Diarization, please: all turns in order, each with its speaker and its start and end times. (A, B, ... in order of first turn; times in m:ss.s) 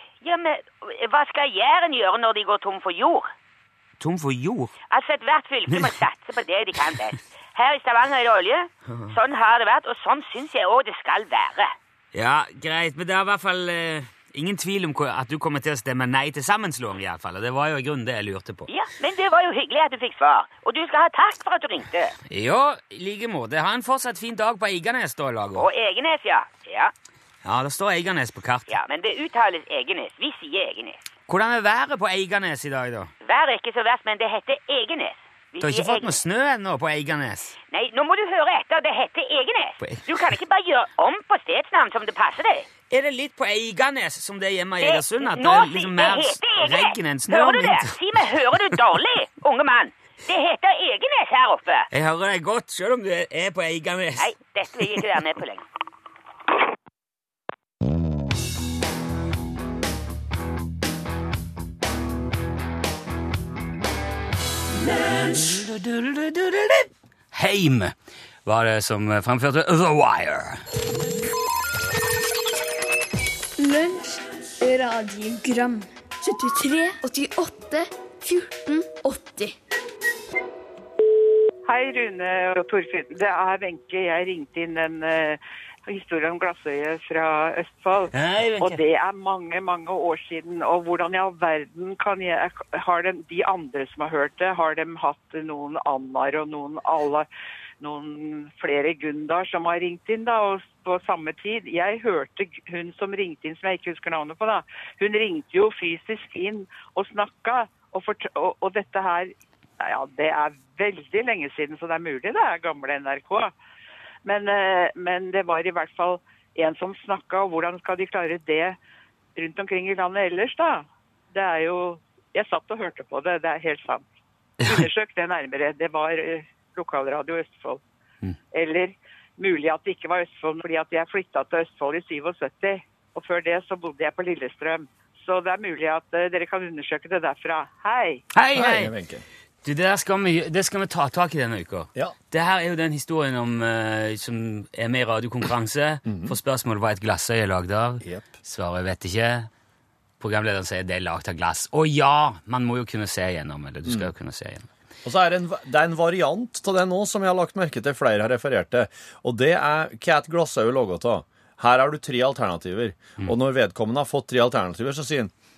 0:00.2-0:03.3 A
0:04.0-0:04.7 B
0:04.9-0:11.7 A
0:08.9-0:09.1 B
0:12.1-0:18.7 B
0:18.7-0:22.2 A
0:22.3-0:25.7 B
0:25.6-0:26.9 A
0:27.4-0:28.7 B
0:28.7-0:31.1 A
0:31.3-0:33.1 B
0:33.2-0:36.2 A
0:35.6-0:37.6 B
0:37.7-0:42.7 A
0:39.8-0:40.1 B
0:42.9-0:48.0 B
0:44.8-0:51.9 A
0:51.9-0:54.3 B
0:54.2-0:55.6 A
1:05.2-1:07.9 B
1:08.4-1:10.6 B
1:13.6-1:19.5 C
1:21.6-1:37.3 D
1:28.1-1:28.8 B
1:37.8-1:53.5 D
1:54.2-1:58.8 D
1:59.4-2:04.0 D
2:04.6-2:07.8 D
2:08.5-2:18.2 D
2:18.3-2:18.9 B
2:18.5-2:19.2 E
2:19.6-2:29.5 B
2:26.1-2:26.4 E
2:28.0-2:28.3 E
2:30.2-2:34.7 B
2:35.0-2:45.3 E